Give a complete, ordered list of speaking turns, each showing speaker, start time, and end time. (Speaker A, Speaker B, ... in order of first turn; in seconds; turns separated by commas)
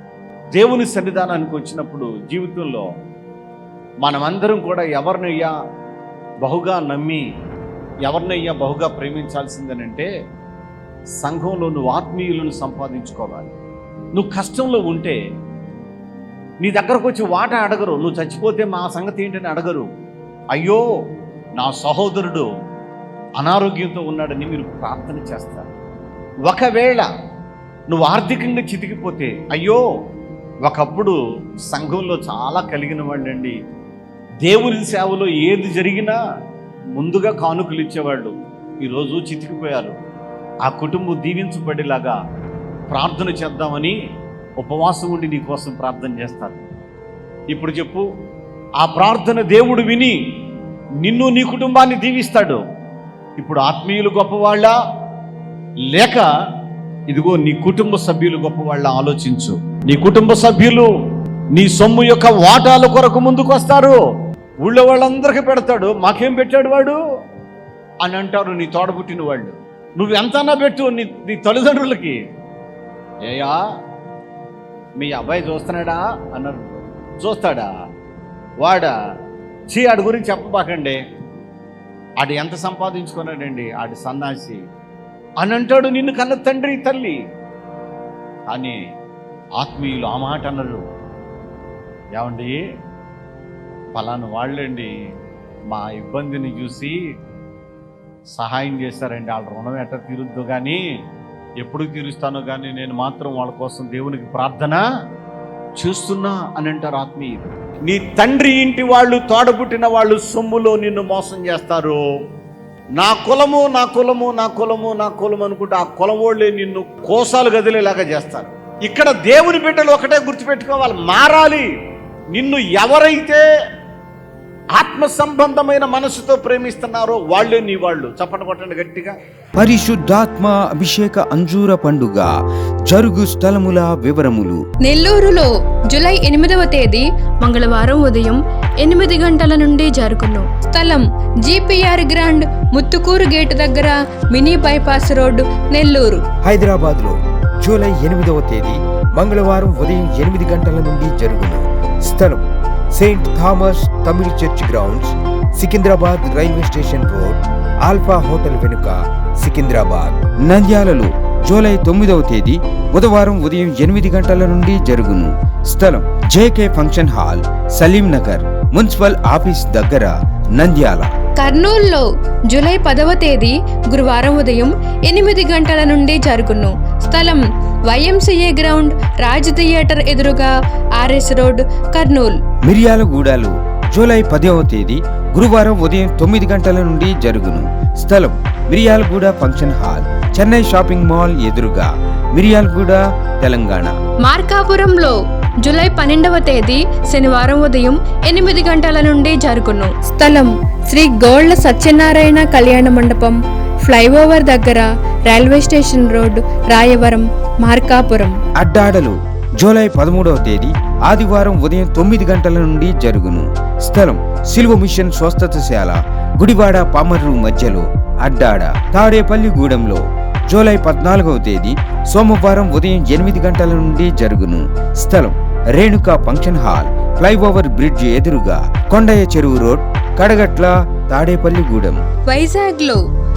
Speaker A: 0.5-2.9, Speaker A: 4.0-5.5, Speaker A: 6.4-7.2, Speaker A: 8.1-10.1, Speaker A: 11.2-13.5, Speaker A: 14.2-15.2, Speaker A: 16.6-19.9, Speaker A: 20.5-20.8, Speaker A: 21.6-22.5, Speaker A: 23.4-25.7, Speaker A: 26.5-27.1, Speaker A: 27.9-29.8, Speaker A: 30.6-33.6, Speaker A: 34.4-36.2, Speaker A: 37.0-40.0, Speaker A: 40.6-42.2, Speaker A: 42.9-44.0, Speaker A: 44.6-46.6, Speaker A: 47.5-48.0, Speaker A: 48.8-50.2, Speaker A: 51.0-52.6, Speaker A: 53.4-54.7, Speaker A: 55.9-56.3, Speaker A: 57.1-60.9, Speaker A: 61.5-64.0, Speaker A: 64.6-67.0, Speaker A: 68.0-72.2, Speaker A: 73.2-73.6, Speaker A: 75.0-76.6, Speaker A: 77.2-77.7, Speaker A: 78.6-78.9, Speaker A: 79.7-81.0, Speaker A: 82.2-84.6, Speaker A: 85.4-87.2, Speaker A: 88.5-88.8, Speaker A: 89.6-90.8, Speaker A: 92.1-92.6, Speaker A: 93.9-94.9, Speaker A: 95.7-97.0, Speaker A: 98.4-100.8, Speaker A: 101.6-104.8, Speaker A: 105.8-112.0, Speaker A: 113.0-121.7, Speaker A: 122.3-123.5, Speaker A: 124.8-129.2, Speaker B: 129.6-132.3, Speaker B: 132.9-134.6, Speaker C: 134.8-146.2, Speaker B: 146.4-152.4, Speaker B: 153.0-171.1, Speaker C: 171.4-182.4, Speaker B: 182.7-193.9, Speaker C: 194.2-208.4, Speaker B: 208.6-232.0, Speaker C: 232.3-233.0